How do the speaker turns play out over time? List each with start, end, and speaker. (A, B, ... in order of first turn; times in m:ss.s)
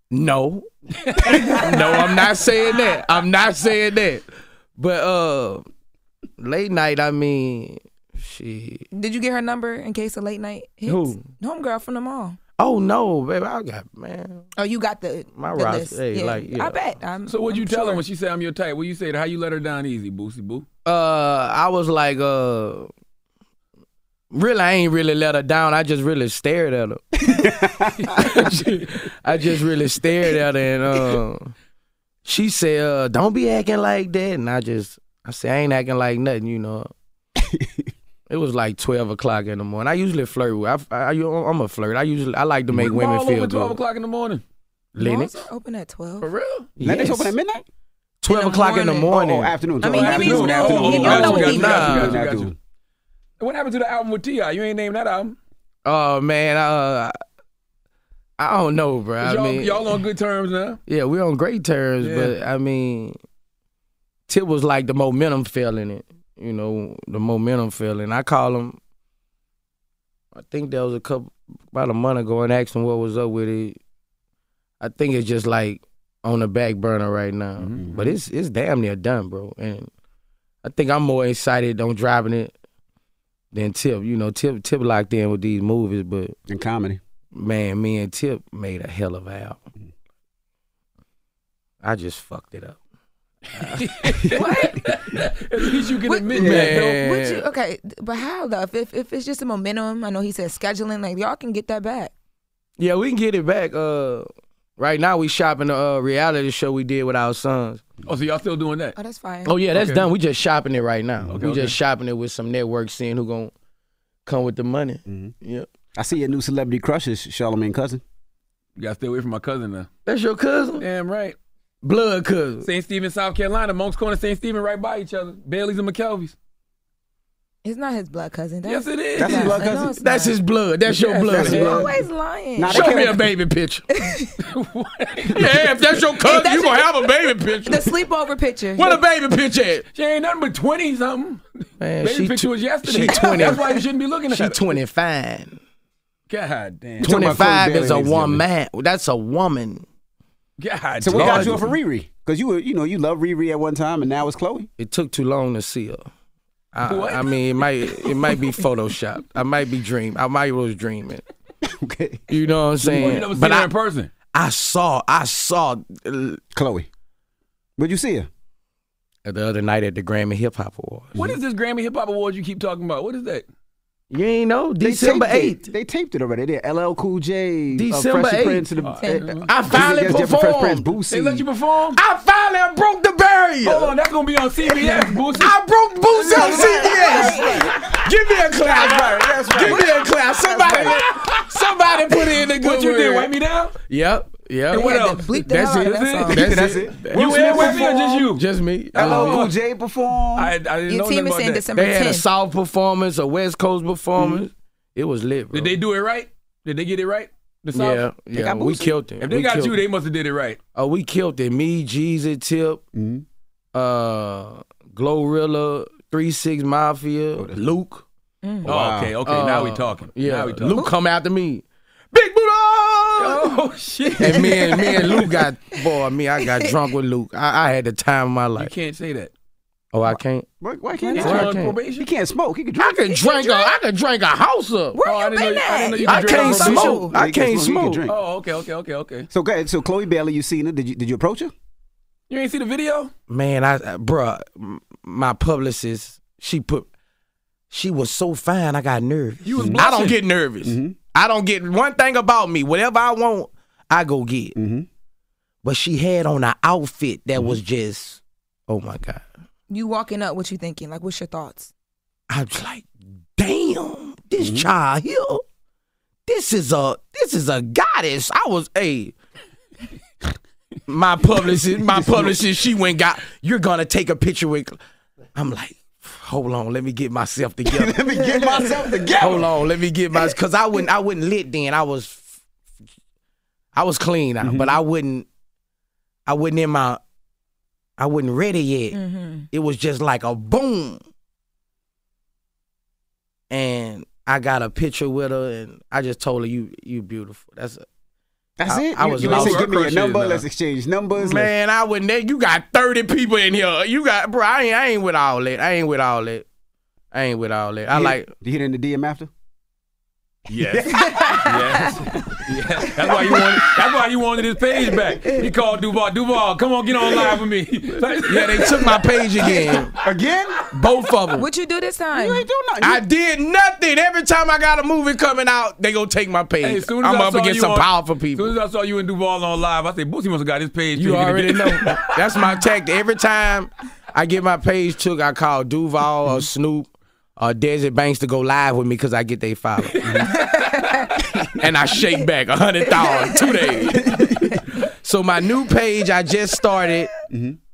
0:00.1-0:00.7 A
0:01.2-0:04.3 A
0:01.4-0:01.7 B
0:04.8-0:05.6 A
0:06.4-0:08.9 A
0:08.9-0:12.4 B
0:10.9-0:11.2 A
0:12.6-0:14.5 A
0:14.6-0:18.0 B
0:15.4-0:16.8 A
0:17.3-0:20.6 C
0:20.8-0:22.9 A
0:24.3-0:27.0 A
0:27.2-0:28.4 D
0:28.1-0:28.8 C
0:28.2-0:31.5 A
0:32.2-0:36.9 A
0:37.4-0:37.9 D
0:38.3-0:43.8 A
0:42.8-0:44.4 C
0:45.0-0:45.4 A
0:45.0-0:46.3 B
0:46.2-0:46.7 C
0:46.8-0:47.3 A
0:46.8-0:47.7 D
0:48.2-0:49.6 A
0:48.3-0:49.2 B
0:49.1-0:52.6 D
0:49.8-0:52.0 B
0:49.8-0:52.5 C
0:50.9-0:52.2 A
0:53.4-0:55.4 C
0:55.8-0:57.2 A
0:58.4-0:59.9 A
0:59.2-1:00.8 C
1:00.9-1:03.2 A
1:02.0-1:02.3 C
1:04.3-1:08.8 A
1:10.4-1:13.8 A
1:14.8-1:19.9 A
1:17.6-1:17.9 C
1:17.8-1:18.0 D
1:20.6-1:22.5 A
1:23.5-1:26.4 A
1:26.5-1:27.0 D
1:27.3-1:29.6 A
1:31.8-1:32.8 A
1:33.6-1:33.8 A
1:33.6-1:37.0 C
1:34.3-1:34.8 B
1:36.1-1:42.1 B
1:36.3-1:36.8 D
1:36.4-1:37.4 A
1:42.8-1:47.8 A
1:48.0-1:49.0 C
1:49.0-1:49.5 B
1:49.4-1:53.5 A
1:49.7-1:50.1 C
1:51.3-1:51.8 C
1:54.3-1:55.7 A
1:55.1-1:55.3 D
1:56.0-1:58.0 D
1:58.8-1:59.9 C
2:00.1-2:00.8 A
2:00.8-2:01.4 C
2:01.8-2:02.7 A
2:02.6-2:06.4 C
2:07.6-2:10.4 B
2:08.6-2:09.6 C
2:09.2-2:09.9 D
2:10.0-2:11.9 A
2:11.0-2:13.0 B
2:11.3-2:11.9 D
2:12.6-2:13.2 D
2:12.7-2:13.8 A
2:14.0-2:14.3 B
2:14.4-2:15.7 C
2:15.3-2:18.0 A
2:16.2-2:17.0 B
2:17.6-2:19.0 B
2:18.8-2:19.9 A
2:19.9-2:21.4 C
2:21.8-2:23.8 A
2:22.0-2:24.8 C
2:23.1-2:23.8 B
2:24.3-2:25.6 A
2:26.3-2:27.4 C
2:27.0-2:28.4 D
2:27.0-2:29.8 A
2:30.6-2:31.6 C
2:31.0-2:34.7 D
2:31.1-2:31.7 A
2:34.8-2:36.1 A
2:36.7-2:41.2 A
2:36.8-2:38.5 C
2:41.6-2:42.3 D
2:42.3-2:43.7 A
2:42.8-2:44.1 C
2:44.3-2:46.4 A
2:46.5-2:46.9 D
2:47.8-2:48.3 D
2:49.2-2:51.3 A
2:51.2-2:53.4 C
2:54.1-2:55.7 A
2:54.8-3:01.4 D
2:57.7-2:58.7 A
2:58.8-2:59.5 C
2:59.0-2:59.3 B
2:59.5-3:00.9 A
3:01.1-3:02.0 C
3:02.0-3:04.0 A
3:03.6-3:05.6 C
3:05.3-3:13.3 A
3:06.1-3:07.8 D
3:06.3-3:07.7 B
3:08.6-3:11.0 D
3:09.6-3:10.0 B
3:10.9-3:13.8 C
3:13.8-3:19.5 A
3:14.7-3:19.5 C
3:14.7-3:16.4 B
3:16.3-3:18.2 D
3:19.0-3:20.5 D
3:20.4-3:21.6 C
3:20.9-3:22.2 B
3:21.8-3:25.8 A
3:24.2-3:24.4 D
3:25.5-3:28.1 C
3:27.7-3:29.8 A
3:28.4-3:28.9 D
3:29.2-3:30.6 C
3:30.8-3:32.8 A
3:32.9-3:33.2 D
3:33.7-3:38.0 A
3:37.4-3:37.7 D
3:38.6-3:39.2 D
3:38.7-3:40.8 C
3:39.2-3:43.5 A
3:43.2-3:45.3 C
3:44.2-3:48.7 A
3:44.2-3:45.2 B
3:48.6-3:49.3 C
3:49.9-3:50.5 A
3:50.6-3:53.1 D
3:51.0-3:51.4 B
3:51.1-3:52.1 C
3:51.2-3:51.8 A
3:52.8-3:55.0 A
3:53.1-3:53.8 B
3:54.9-3:57.1 B
3:55.0-3:57.0 C
3:56.1-3:58.0 A
3:56.6-3:58.2 D
3:58.1-3:59.3 C
3:59.3-4:01.5 D
4:02.3-4:03.1 C
4:03.3-4:06.9 A
4:07.7-4:14.6 A
4:09.4-4:10.2 C
4:10.6-4:11.0 D
4:14.6-4:14.9 D
4:15.6-4:19.2 A
4:19.7-4:21.7 B
4:22.3-4:25.4 A
4:24.4-4:24.7 D
4:26.3-4:29.2 A
4:30.9-4:34.8 A
4:31.8-4:32.4 D
4:35.4-4:38.0 A
4:37.7-4:39.5 D
4:38.2-4:38.6 B
4:39.2-4:42.3 A
4:43.7-4:45.3 A
4:44.4-4:44.8 D
4:46.3-4:47.0 A
4:48.0-4:49.0 A
4:48.9-4:49.5 B
4:49.5-4:51.0 A
4:53.5-4:57.8 A
4:58.6-5:01.5 D
4:58.7-4:59.7 A
4:59.1-5:00.4 C
5:01.2-5:06.5 A
5:07.1-5:08.3 A
5:07.9-5:09.3 D
5:10.5-5:19.0 C
5:10.7-5:11.0 D
5:10.9-5:12.0 B
5:18.3-5:19.9 A
5:20.0-5:20.6 D
5:20.7-5:21.5 A
5:21.4-5:22.5 B
5:22.1-5:23.0 D
5:22.8-5:28.6 A
5:26.6-5:32.1 C
5:31.0-5:40.3 A
5:40.0-5:40.6 C
5:40.3-5:41.1 B
5:41.6-5:44.2 A
5:42.9-5:44.1 B
5:43.9-5:44.6 D
5:44.8-5:47.1 A
5:47.3-5:47.6 D